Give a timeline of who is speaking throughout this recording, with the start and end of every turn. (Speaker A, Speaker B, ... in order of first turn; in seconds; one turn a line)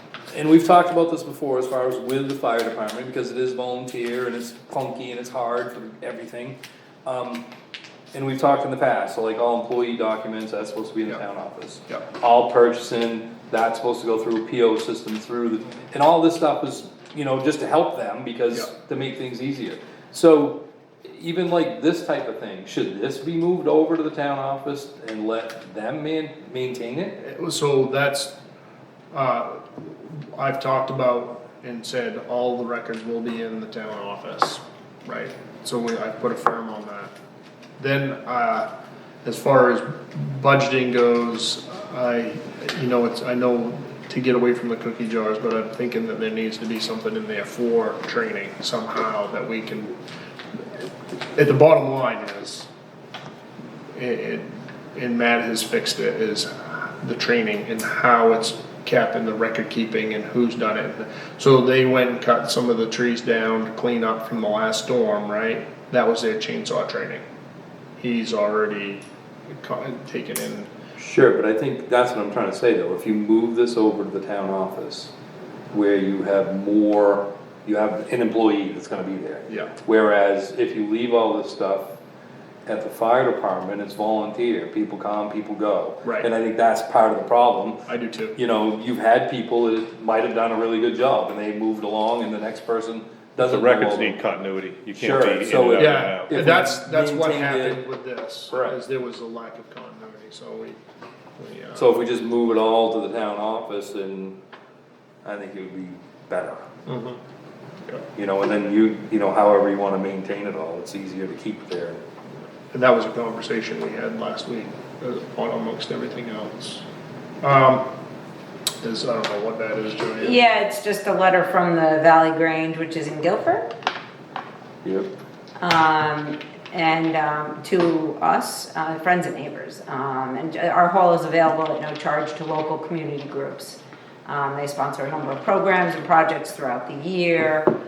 Speaker A: 0.3-7.5
Speaker A: 8.1-27.1
Speaker B: 27.2-28.3
Speaker B: 29.1-37.1
Speaker B: 37.8-38.7
Speaker B: 39.2-50.0
Speaker B: 51.3-52.7
Speaker B: 53.9-67.2
Speaker B: 68.0-70.7
Speaker A: 71.0-75.1
Speaker A: 75.7-81.9
Speaker B: 79.5-79.7
Speaker A: 82.7-87.8
Speaker B: 86.0-86.3
Speaker B: 87.9-88.3
Speaker A: 88.3-94.2
Speaker C: 93.4-96.4
Speaker A: 94.9-97.8
Speaker B: 95.7-100.8
Speaker A: 98.5-98.8
Speaker B: 101.4-101.9
Speaker A: 101.7-104.4
Speaker A: 105.2-106.6
Speaker B: 106.8-107.2
Speaker A: 108.2-112.0
Speaker B: 112.7-116.8
Speaker B: 117.4-117.9
Speaker B: 118.8-120.4
Speaker D: 120.2-123.7
Speaker A: 124.8-125.1
Speaker D: 125.6-137.7